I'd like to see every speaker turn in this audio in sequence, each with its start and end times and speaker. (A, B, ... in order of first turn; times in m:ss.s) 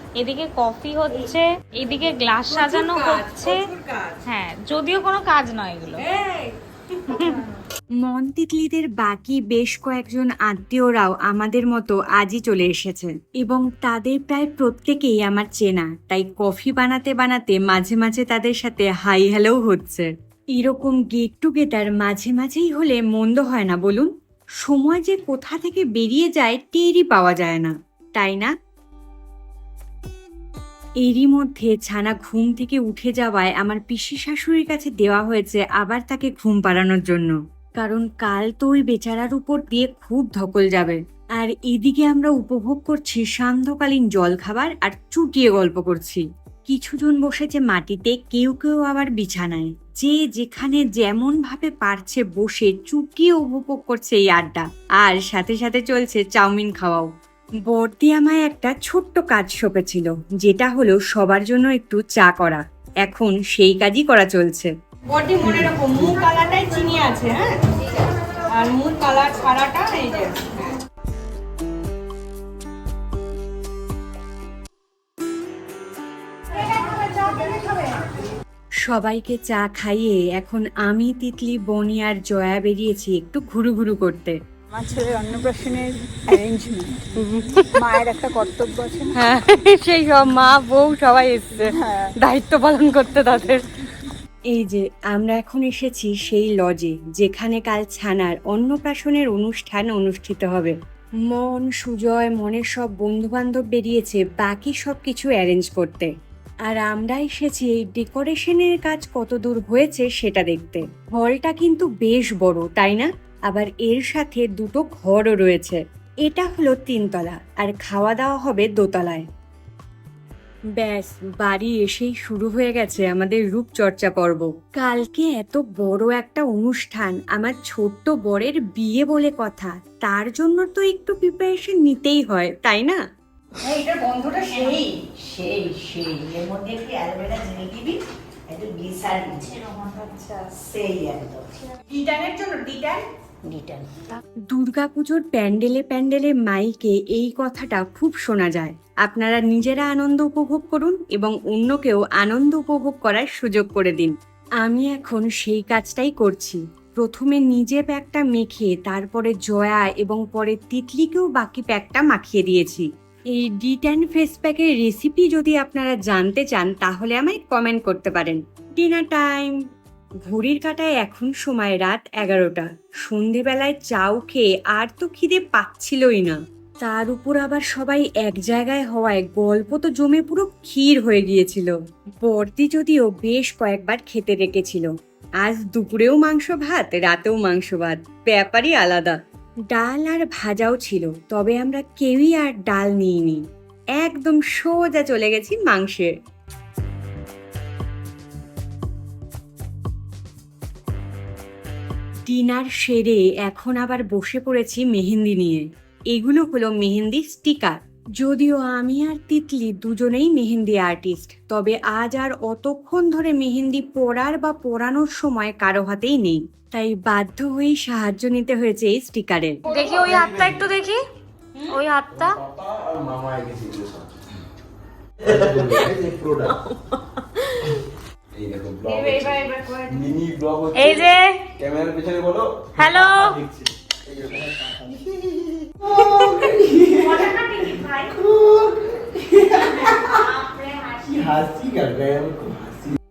0:00.2-0:03.6 A
0:02.5-0:04.2 B
0:04.2-0:06.0 A
0:06.0-0:06.5 B
0:07.1-0:07.4 A
0:08.0-0:24.1 B
0:24.6-0:28.5 B
0:31.0-0:57.1 B
0:57.7-1:07.5 B
1:06.8-1:07.2 C
1:08.5-1:10.7 B
1:08.5-1:10.7 C
1:16.8-1:17.8 B
1:16.8-1:17.9 C
1:18.8-1:24.4 B
1:24.7-1:29.2 D
1:27.3-1:27.8 B
1:29.1-1:33.6 B
1:31.7-1:32.1 D
1:34.5-1:40.8 B
1:41.3-1:46.1 B
1:46.7-1:59.2 B
2:00.8-2:13.0 B
2:13.6-2:18.0 C
2:14.0-2:14.4 B
2:18.5-2:21.4 C
2:21.8-2:23.0 B
2:23.5-2:23.9 C
2:24.5-2:49.5 B
2:50.2-3:04.9 B
3:05.4-3:09.2 B
3:09.7-3:13.4 B
3:14.0-3:16.1 B
3:22.3-3:39.5 B
3:39.6-3:41.0 A
3:41.6-3:42.4 A
3:42.1-3:44.1 E
3:45.2-3:46.6 E
3:46.9-3:47.8 A
3:48.3-3:57.2 E
3:48.9-3:50.1 A
3:50.7-3:51.4 A
3:52.8-3:53.4 A
3:56.0-3:58.1 A
3:58.1-4:00.2 E
4:00.4-4:00.8 A
4:00.9-4:03.0 E